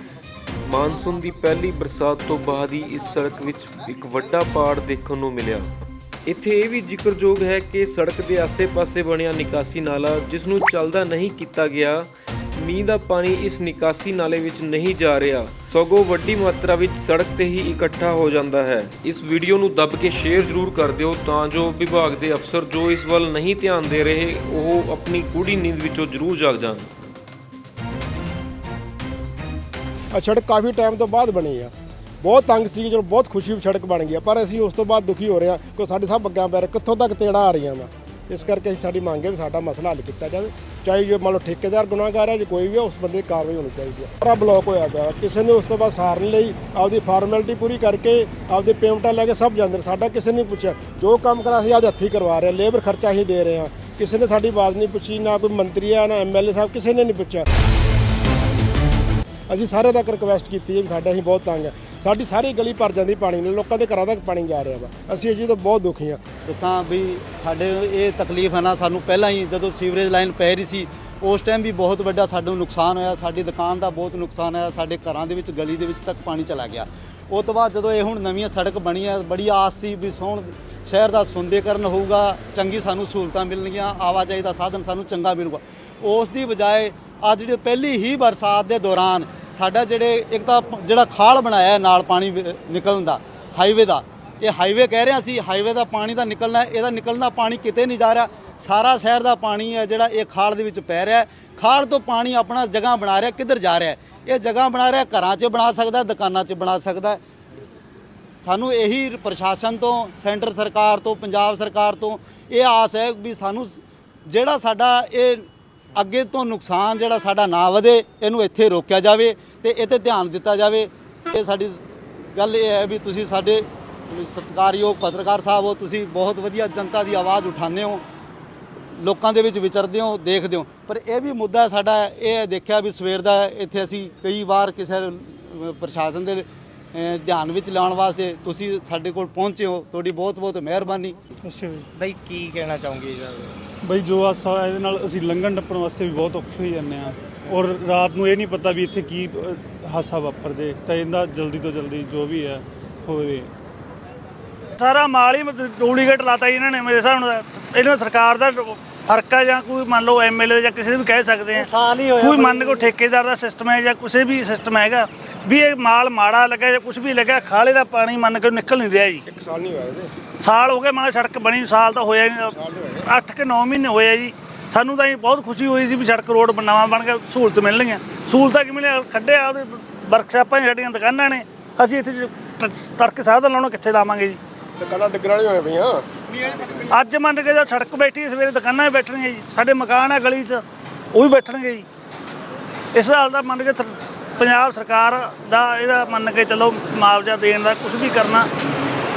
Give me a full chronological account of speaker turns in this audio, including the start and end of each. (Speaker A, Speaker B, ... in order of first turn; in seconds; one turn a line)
Speaker A: 0.7-5.7
Speaker A: 6.2-27.0
Speaker B: 30.1-57.5
Speaker B: 59.5-66.2
Speaker C: 66.5-107.2
Speaker C: 108.4-128.0
Speaker C: 128.9-141.2
Speaker D: 141.4-141.9
Speaker E: 141.9-143.6
Speaker D: 143.8-153.5
Speaker F: 154.8-169.2
Speaker E: 161.8-162.7
Speaker B: 169.3-170.1
Speaker F: 170.4-172.5
Speaker B: 172.6-173.0
Speaker F: 173.1-184.4
Speaker B: 184.8-186.1
Speaker F: 186.9-190.6
Speaker F: 191.1-191.8
Speaker F: 192.9-198.5